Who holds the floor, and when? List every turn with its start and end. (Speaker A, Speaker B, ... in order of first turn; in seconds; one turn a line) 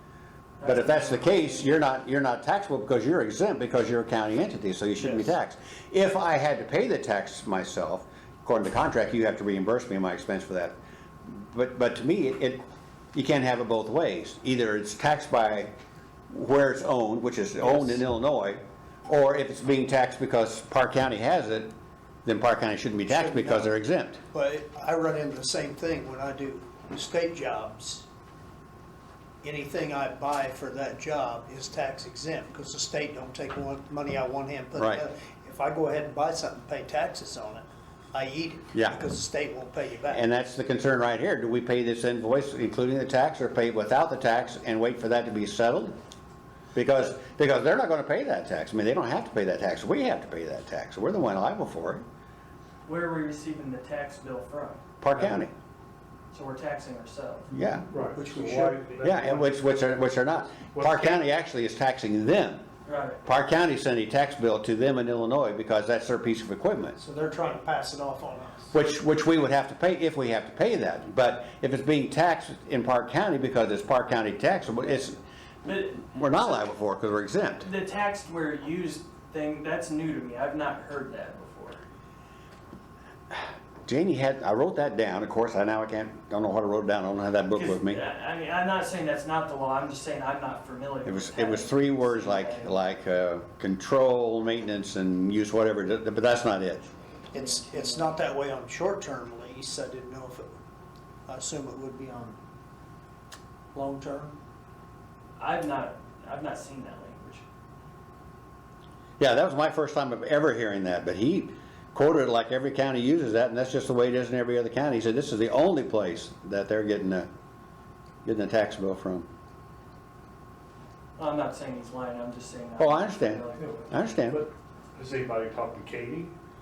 Speaker A: 0.6-1.8
Speaker B: 0.6-12.6
Speaker B: 13.1-15.7
Speaker B: 16.3-21.7
Speaker C: 17.6-17.9
Speaker B: 22.2-24.2
Speaker C: 23.1-23.8
Speaker C: 24.3-28.1
Speaker C: 29.4-40.2
Speaker B: 34.8-35.1
Speaker B: 38.7-39.0
Speaker B: 40.1-46.0
Speaker B: 46.8-52.0
Speaker A: 52.9-54.8
Speaker B: 55.0-55.5
Speaker A: 56.3-57.5
Speaker B: 57.5-57.9
Speaker D: 57.9-59.5
Speaker C: 58.1-59.3
Speaker B: 59.0-62.6
Speaker D: 60.6-61.2
Speaker A: 62.9-63.2
Speaker B: 63.2-67.0
Speaker C: 67.0-68.8
Speaker B: 68.7-75.2
Speaker A: 74.8-75.1
Speaker A: 75.6-76.7
Speaker B: 76.1-77.7
Speaker A: 77.6-81.8
Speaker B: 83.3-88.0
Speaker A: 87.5-92.8
Speaker B: 91.0-96.9
Speaker C: 97.3-100.5
Speaker A: 97.3-98.2
Speaker C: 101.3-102.4
Speaker C: 103.7-104.4
Speaker A: 105.4-107.4
Speaker B: 109.2-117.3
Speaker B: 118.2-119.3
Speaker A: 121.2-124.1
Speaker B: 122.8-124.5
Speaker D: 123.6-126.3